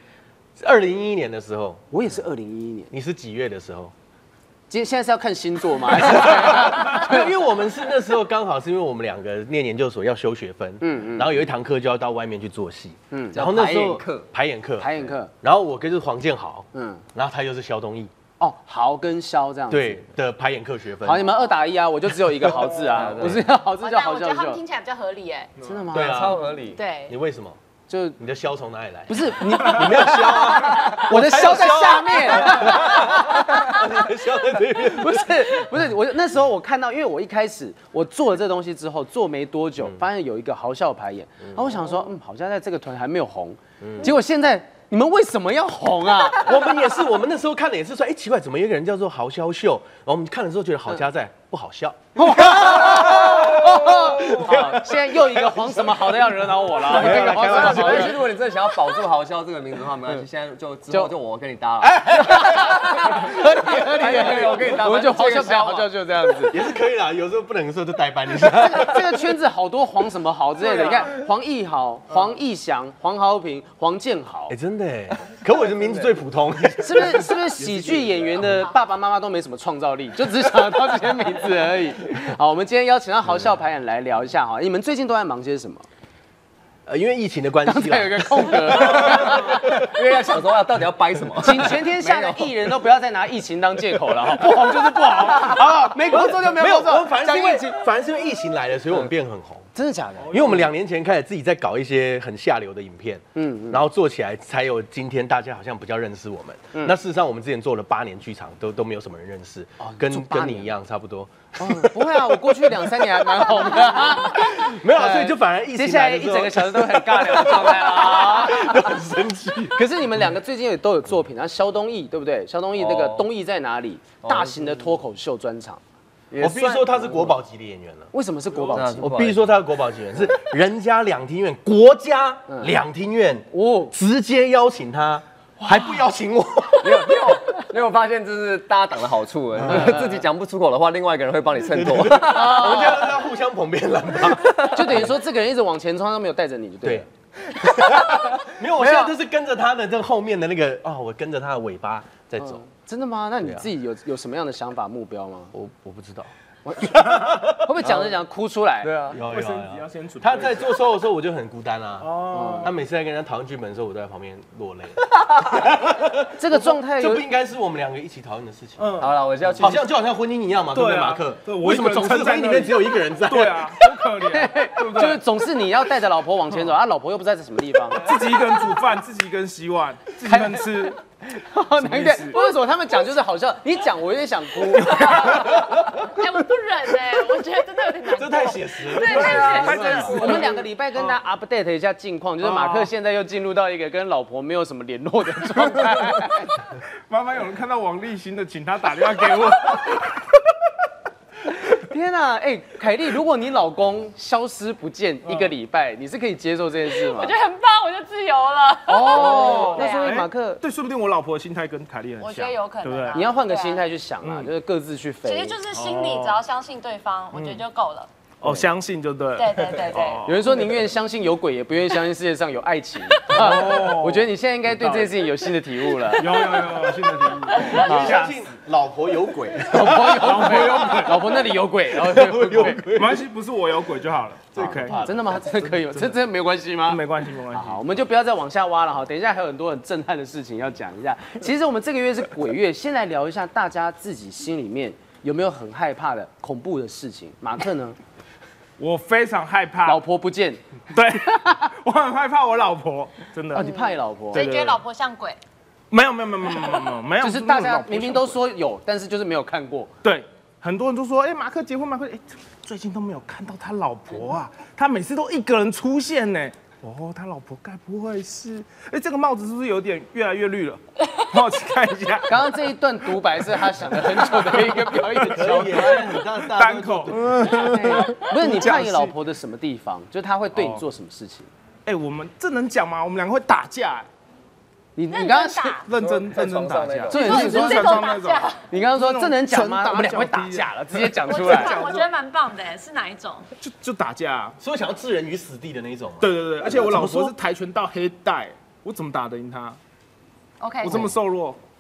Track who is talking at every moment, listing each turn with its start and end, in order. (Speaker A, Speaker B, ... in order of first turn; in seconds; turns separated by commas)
Speaker A: 0.6-1.8, Speaker B: 1.9-2.9, Speaker A: 2.9-3.9, Speaker B: 4.7-7.4, Speaker A: 5.9-18.1, Speaker B: 10.8-11.4, Speaker B: 13.1-13.4, Speaker C: 13.3-14.3, Speaker B: 14.8-15.3, Speaker B: 16.7-17.0, Speaker B: 18.4-20.1, Speaker A: 19.7-21.3, Speaker B: 21.0-24.6, Speaker C: 22.9-23.5, Speaker A: 23.0-23.4, Speaker D: 23.8-25.5, Speaker B: 25.6-26.5, Speaker A: 25.9-26.5, Speaker C: 25.9-26.8, Speaker D: 26.8-27.2, Speaker A: 27.1-27.6, Speaker B: 27.9-28.2, Speaker A: 28.2-35.7, Speaker B: 29.1-34.1, Speaker B: 34.6-46.8, Speaker A: 41.5-41.9, Speaker A: 43.8-44.1, Speaker A: 46.2-55.7, Speaker B: 52.2-58.2, Speaker A: 56.7-58.3, Speaker C: 56.9-66.5, Speaker B: 61.8-66.6, Speaker A: 66.5-69.2, Speaker B: 68.4-74.5, Speaker E: 70.6-71.1, Speaker A: 74.5-77.5, Speaker B: 76.8-85.9, Speaker E: 77.6-78.4, Speaker A: 86.9-89.9, Speaker B: 87.7-89.7, Speaker C: 88.8-92.5, Speaker B: 91.4-97.8, Speaker A: 95.3-99.7, Speaker B: 99.8-100.7, Speaker E: 100.3-100.5, Speaker A: 100.3-119.9, Speaker B: 103.3-103.8, Speaker B: 109.8-110.7, Speaker B: 111.6-119.0, Speaker B: 119.8-125.8, Speaker C: 124.2-124.8, Speaker C: 126.3-127.4, Speaker A: 126.4-128.1, Speaker B: 128.1-129.2, Speaker C: 128.7-129.6, Speaker A: 128.9-137.4, Speaker B: 132.5-132.8, Speaker B: 133.5-133.9, Speaker C: 136.8-143.0, Speaker A: 139.6-140.1, Speaker B: 139.7-140.2, Speaker A: 141.7-145.2, Speaker B: 142.3-143.1, Speaker B: 144.7-149.2, Speaker A: 146.8-152.6, Speaker B: 152.4-155.5, Speaker A: 155.5-156.3, Speaker B: 156.7-158.9, Speaker A: 157.3-158.1, Speaker C: 158.8-159.2, Speaker A: 159.0-169.0, Speaker E: 159.2-160.7, Speaker E: 162.0-162.7, Speaker B: 162.3-162.7, Speaker B: 166.4-167.2, Speaker E: 168.8-169.8, Speaker C: 169.0-169.8, Speaker A: 169.6-173.8, Speaker E: 170.7-175.2, Speaker B: 174.2-178.1, Speaker E: 177.9-181.0, Speaker B: 180.3-185.6, Speaker E: 181.8-182.4, Speaker D: 184.9-190.3, Speaker A: 185.4-186.0, Speaker A: 188.1-190.4, Speaker E: 189.0-191.2, Speaker B: 189.2-196.6, Speaker E: 192.4-192.9, Speaker E: 197.1-200.4, Speaker B: 201.6-207.3, Speaker E: 205.2-205.5, Speaker D: 207.0-210.2, Speaker B: 208.9-210.6, Speaker E: 209.1-213.2, Speaker D: 212.2-213.8, Speaker B: 213.1-215.6, Speaker E: 214.2-214.5, Speaker D: 215.2-218.1, Speaker E: 215.7-216.4, Speaker E: 217.3-217.6, Speaker E: 218.4-220.6, Speaker D: 219.4-220.3, Speaker B: 220.2-226.4, Speaker E: 223.3-225.2, Speaker E: 226.2-228.4, Speaker A: 227.3-233.2, Speaker B: 227.7-228.2, Speaker B: 229.7-232.8, Speaker E: 230.2-231.2, Speaker E: 232.9-236.2, Speaker A: 234.5-235.3, Speaker B: 234.6-248.0, Speaker E: 236.8-237.8, Speaker E: 248.8-250.0, Speaker B: 249.8-250.6, Speaker E: 250.9-253.8, Speaker B: 251.3-251.6, Speaker B: 253.5-254.5, Speaker E: 254.3-254.8, Speaker D: 254.3-255.4, Speaker E: 255.9-258.4, Speaker B: 257.2-259.9, Speaker E: 260.0-272.5, Speaker B: 272.3-276.1, Speaker E: 273.5-279.1, Speaker A: 275.4-277.6, Speaker B: 277.5-281.5, Speaker E: 280.5-280.9, Speaker E: 281.9-284.1, Speaker B: 285.0-285.8, Speaker D: 285.1-285.9, Speaker E: 285.9-292.1, Speaker C: 285.9-287.3, Speaker B: 287.1-288.1, Speaker D: 287.1-288.7, Speaker B: 288.7-291.8, Speaker D: 291.3-293.5, Speaker E: 293.6-294.6, Speaker A: 294.6-297.3, Speaker E: 296.2-299.8, Speaker D: 300.6-301.1, Speaker E: 300.8-301.6, Speaker B: 300.9-301.1